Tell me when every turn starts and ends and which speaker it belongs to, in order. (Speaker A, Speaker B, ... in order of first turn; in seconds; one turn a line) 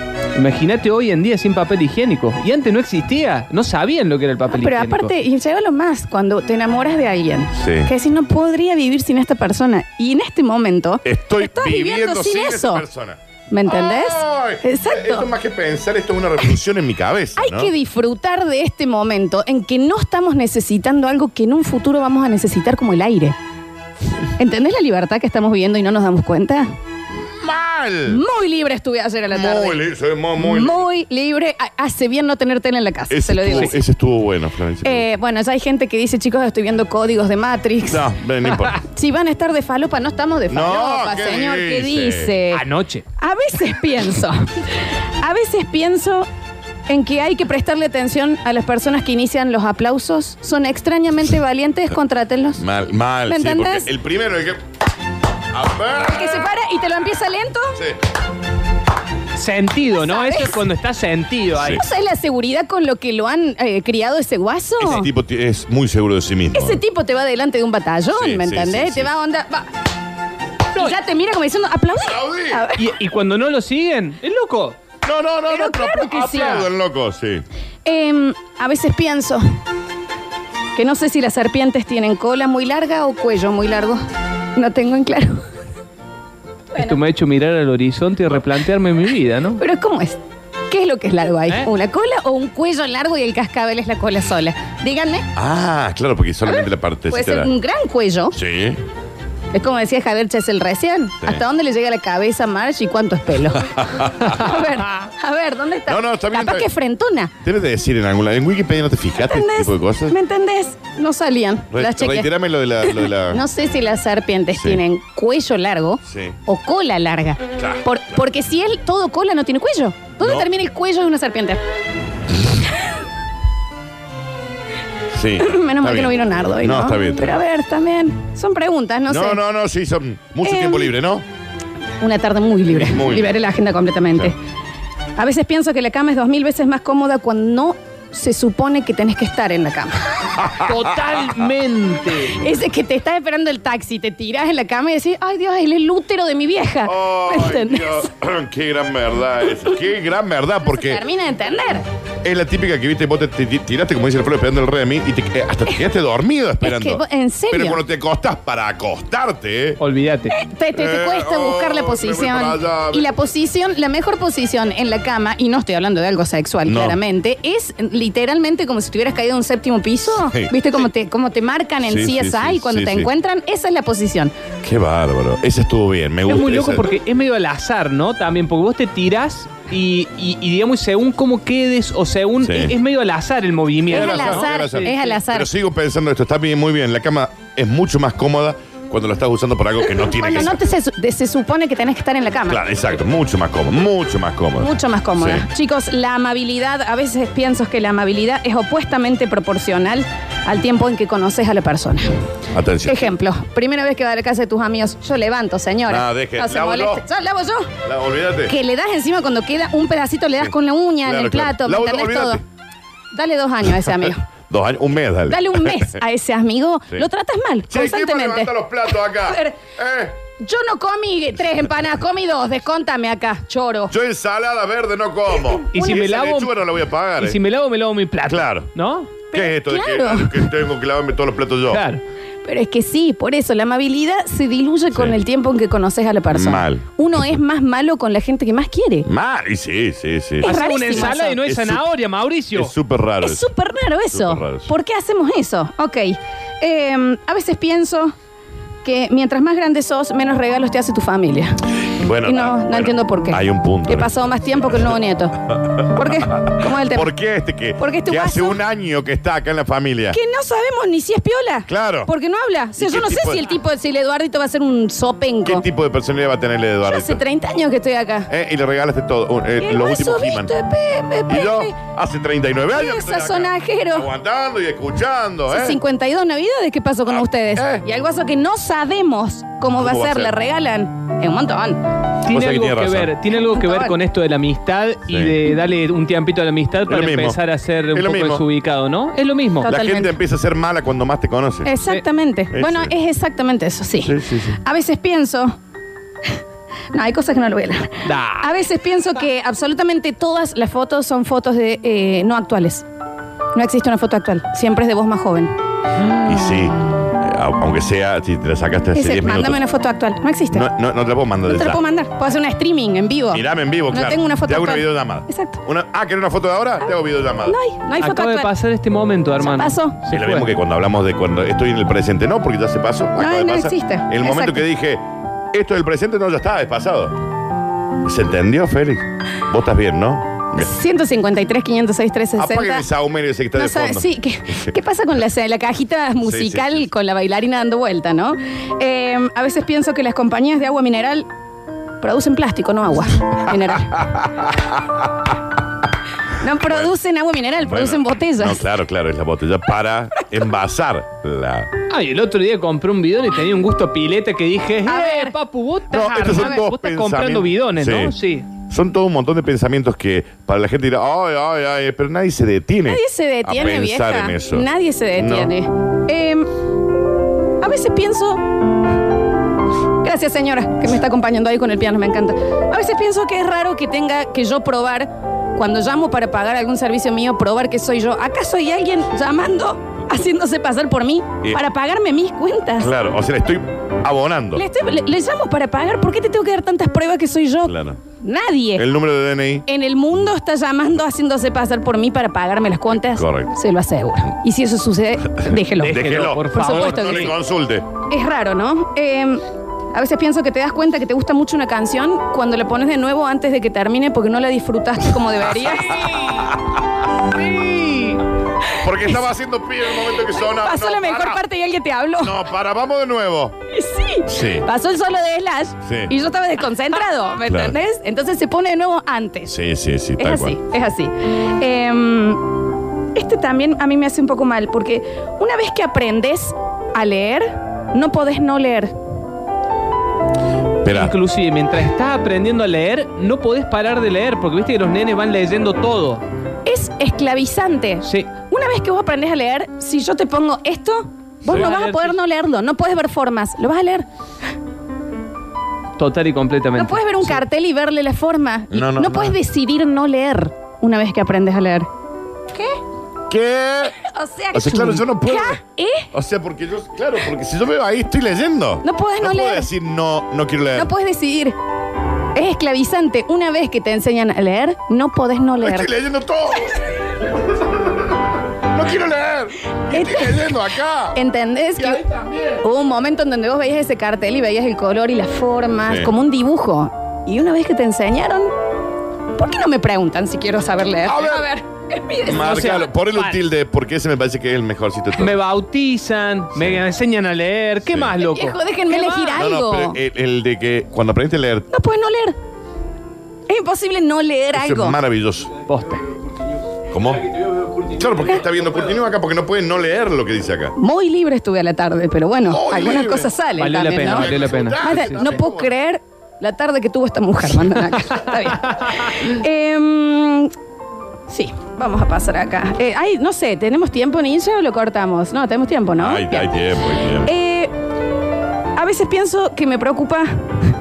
Speaker A: 0.3-5.1
Speaker B: 4.5-12.8
Speaker C: 7.5-7.9
Speaker C: 11.0-17.7
Speaker B: 13.5-15.3
Speaker B: 17.4-23.4
Speaker B: 24.4-26.7
Speaker C: 27.2-28.2
Speaker B: 28.1-29.8
Speaker C: 29.3-30.8
Speaker B: 30.4-33.8
Speaker C: 33.1-35.1
Speaker B: 34.8-38.0
Speaker C: 37.9-38.8
Speaker B: 38.7-42.6
Speaker C: 40.5-42.3
Speaker A: 42.5-43.0
Speaker B: 43.2-44.5
Speaker B: 45.2-46.3
Speaker B: 46.9-52.6
Speaker C: 52.6-54.6
Speaker B: 53.3-53.9
Speaker C: 55.5-56.5
Speaker B: 56.0-57.8
Speaker A: 59.3-61.8
Speaker B: 59.9-60.6
Speaker B: 61.6-65.1
Speaker C: 64.8-66.8
Speaker B: 66.5-69.7
Speaker C: 68.1-69.1
Speaker B: 70.7-72.8
Speaker C: 72.0-72.7
Speaker A: 72.8-74.8
Speaker C: 75.0-77.4
Speaker B: 75.5-76.7
Speaker B: 77.8-79.4
Speaker B: 80.8-84.0
Speaker B: 84.5-85.4
Speaker A: 86.8-89.6
Speaker B: 89.6-95.3
Speaker C: 95.3-97.5
Speaker B: 96.5-98.4
Speaker C: 98.3-98.8
Speaker B: 99.5-107.3
Speaker C: 103.7-104.4
Speaker C: 105.9-106.7
Speaker C: 107.4-110.1
Speaker B: 109.2-112.3
Speaker C: 111.7-113.4
Speaker B: 112.8-121.6
Speaker C: 114.5-114.8
Speaker C: 116.0-116.4
Speaker C: 117.6-117.8
Speaker C: 120.2-120.5
Speaker C: 125.1-127.4
Speaker B: 125.4-129.4
Speaker C: 129.1-131.2
Speaker B: 130.4-130.9
Speaker B: 132.0-134.4
Speaker C: 132.7-133.3
Speaker B: 135.2-140.1
Speaker C: 140.4-141.1
Speaker A: 140.6-142.4
Speaker B: 142.3-148.1
Speaker C: 146.8-151.0
Speaker B: 150.7-151.8
Speaker C: 152.2-159.8
Speaker B: 156.6-157.8
Speaker A: 159.8-160.3
Speaker B: 160.3-174.3
Speaker C: 160.7-163.1
Speaker C: 166.6-167.0
Speaker C: 170.1-170.9
Speaker C: 171.8-173.1
Speaker C: 174.6-176.9
Speaker A: 176.3-184.9
Speaker C: 182.4-182.8
Speaker C: 183.9-190.6
Speaker B: 183.9-185.5
Speaker B: 189.9-192.6
Speaker C: 192.5-195.4
Speaker B: 194.6-202.1
Speaker C: 202.5-203.1
Speaker B: 202.8-207.7
Speaker C: 205.9-207.0
Speaker C: 207.8-208.5
Speaker B: 208.5-212.4
Speaker C: 210.4-212.4
Speaker B: 213.1-214.2
Speaker C: 214.5-216.0
Speaker B: 215.3-218.5
Speaker C: 217.7-220.2
Speaker B: 219.1-219.6
Speaker B: 220.4-223.9
Speaker C: 223.9-227.4
Speaker A: 225.7-226.6
Speaker A: 227.2-229.1
Speaker C: 228.2-228.7
Speaker B: 229.3-230.4
Speaker C: 229.3-231.8
Speaker A: 231.7-232.0
Speaker B: 232.4-239.1
Speaker C: 234.9-235.2
Speaker C: 236.3-236.9
Speaker C: 239.0-241.8
Speaker A: 240.4-242.7
Speaker B: 240.4-241.3
Speaker C: 242.5-243.5
Speaker B: 243.2-248.1
Speaker C: 244.1-244.7
Speaker B: 248.8-251.6
Speaker C: 252.0-254.9
Speaker B: 252.2-257.1
Speaker C: 255.5-260.2
Speaker B: 257.8-258.6
Speaker B: 260.1-265.6
Speaker C: 261.7-262.1
Speaker C: 262.8-263.4
Speaker C: 265.4-267.2
Speaker B: 266.8-268.3
Speaker C: 268.3-270.5
Speaker B: 269.6-271.8
Speaker C: 271.3-275.8
Speaker B: 272.7-274.1
Speaker B: 275.5-281.8
Speaker C: 277.0-277.8
Speaker C: 279.8-280.3
Speaker A: 282.2-289.7
Speaker C: 282.3-283.1
Speaker B: 283.3-283.9
Speaker C: 285.1-285.4
Speaker C: 286.9-287.4
Speaker C: 287.9-288.4
Speaker B: 289.6-290.1
Speaker C: 289.6-291.7
Speaker B: 291.6-295.6
Speaker C: 292.5-292.9
Speaker C: 294.0-294.6
Speaker B: 296.9-302.8
Speaker A: 298.0-298.5
Speaker B: 303.5-305.5
Speaker C: 306.2-309.6
Speaker B: 308.9-310.7
Speaker C: 310.5-311.8
Speaker B: 311.5-315.6
Speaker C: 313.3-317.6
Speaker B: 317.4-318.5
Speaker A: 318.0-320.5
Speaker B: 319.4-320.0
Speaker C: 320.1-327.1
Speaker B: 323.2-324.6
Speaker C: 328.0-330.7
Speaker B: 330.6-332.9
Speaker C: 332.4-334.7
Speaker B: 333.6-341.3
Speaker C: 336.2-336.9
Speaker B: 342.0-344.0
Speaker C: 343.9-345.1
Speaker B: 346.4-348.6
Speaker C: 346.7-346.9
Speaker C: 347.6-351.7
Speaker A: 351.9-358.4
Speaker B: 354.9-355.3
Speaker C: 355.9-365.5
Speaker B: 356.2-356.6
Speaker B: 362.9-366.5
Speaker B: 367.6-368.4
Speaker B: 370.0-382.9
Speaker C: 382.8-384.6
Speaker B: 384.6-388.9
Speaker C: 387.6-388.0
Speaker C: 388.8-389.6
Speaker B: 389.7-397.3
Speaker C: 392.9-393.5
Speaker C: 395.4-397.9
Speaker A: 395.8-397.3
Speaker B: 398.1-399.4
Speaker B: 399.9-406.1
Speaker A: 407.3-408.2
Speaker B: 408.7-409.2
Speaker C: 408.8-411.4
Speaker B: 410.2-412.4
Speaker C: 412.2-413.6
Speaker B: 413.7-419.5
Speaker C: 414.2-414.7
Speaker C: 415.8-416.1
Speaker C: 417.4-417.8
Speaker C: 419.4-420.6
Speaker B: 420.2-422.4
Speaker B: 423.1-428.9
Speaker C: 430.8-431.1
Speaker A: 430.9-436.2
Speaker B: 436.6-444.1
Speaker A: 441.4-442.2
Speaker A: 446.0-447.4
Speaker B: 446.8-451.9
Speaker C: 448.7-449.4
Speaker B: 452.5-452.8
Speaker C: 453.3-454.0
Speaker B: 454.0-456.1
Speaker C: 454.5-455.6
Speaker C: 456.1-460.9
Speaker B: 458.8-459.7
Speaker B: 460.7-461.6
Speaker B: 462.3-465.9
Speaker C: 465.6-467.7
Speaker C: 468.7-471.2
Speaker B: 469.9-470.5
Speaker B: 471.1-472.0
Speaker C: 471.8-472.6
Speaker B: 472.6-478.5
Speaker C: 475.8-476.1
Speaker B: 479.4-482.8
Speaker C: 481.1-481.5
Speaker C: 482.2-485.4
Speaker A: 482.4-483.4
Speaker A: 485.2-489.4
Speaker C: 486.5-486.8
Speaker C: 487.8-488.1
Speaker B: 488.2-490.0
Speaker C: 489.3-491.7
Speaker B: 491.7-492.4
Speaker B: 493.5-495.0
Speaker C: 494.5-495.6
Speaker A: 495.7-496.1
Speaker C: 496.9-497.2
Speaker C: 497.9-500.7
Speaker B: 500.8-510.5
Speaker C: 502.5-503.3
Speaker A: 503.6-505.2
Speaker C: 504.0-505.7
Speaker A: 508.6-508.9
Speaker B: 511.3-516.5
Speaker C: 516.0-517.3
Speaker B: 517.2-517.7
Speaker B: 518.8-520.5